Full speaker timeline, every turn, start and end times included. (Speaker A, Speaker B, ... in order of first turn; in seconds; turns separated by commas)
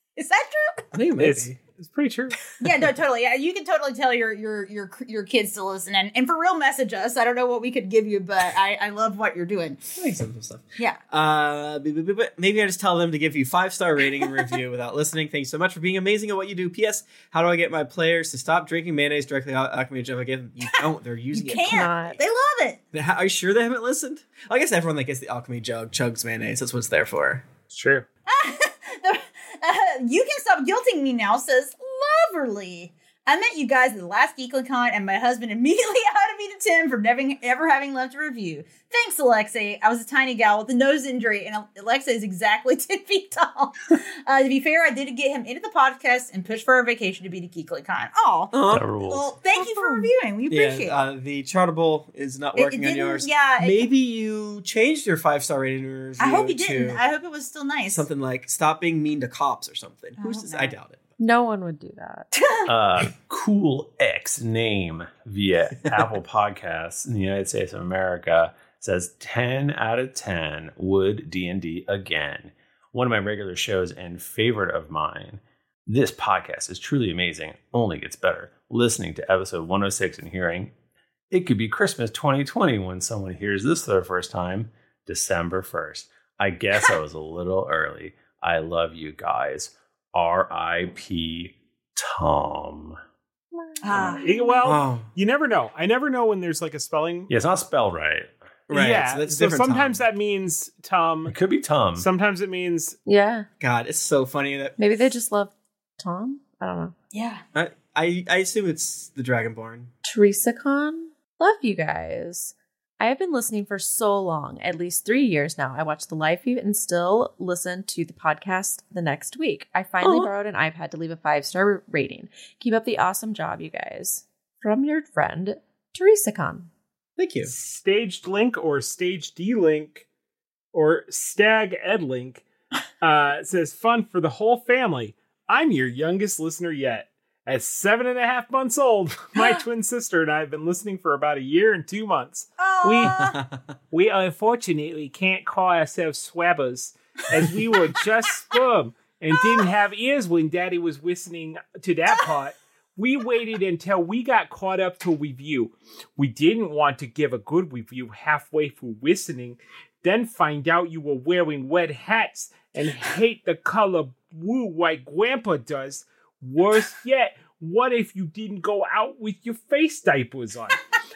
Speaker A: 0.1-0.8, Speaker B: 0.9-1.6, Speaker C: 1.2-2.4, Speaker A: 2.6-9.9, Speaker B: 9.9-22.1, Speaker A: 21.3-22.8, Speaker D: 21.6-22.2, Speaker B: 22.9-27.4, Speaker C: 27.7-28.1, Speaker A: 28.3-51.0, Speaker B: 48.5-48.9, Speaker E: 48.7-49.3, Speaker B: 49.5-57.0, Speaker A: 52.6-53.9, Speaker A: 56.2-58.0, Speaker B: 57.9-61.0, Speaker A: 60.2-60.7, Speaker D: 61.2-62.3, Speaker A: 62.3-62.7, Speaker E: 62.6-80.7, Speaker E: 81.3-93.0, Speaker A: 93.8-94.3, Speaker C: 94.1-97.3, Speaker B: 94.6-95.1, Speaker E: 97.3-98.3, Speaker B: 98.7-100.0, Speaker C: 98.7-101.3, Speaker E: 101.3-102.1, Speaker C: 102.0-103.0, Speaker D: 103.0-103.5, Speaker B: 103.6-104.8, Speaker D: 104.8-106.9, Speaker A: 107.1-107.4, Speaker B: 107.5-109.9, Speaker D: 110.0-126.7, Speaker B: 127.2-127.5, Speaker C: 127.4-130.1, Speaker C: 130.7-132.4, Speaker C: 133.0-143.3, Speaker A: 142.6-143.4, Speaker B: 143.2-143.5, Speaker C: 143.9-170.8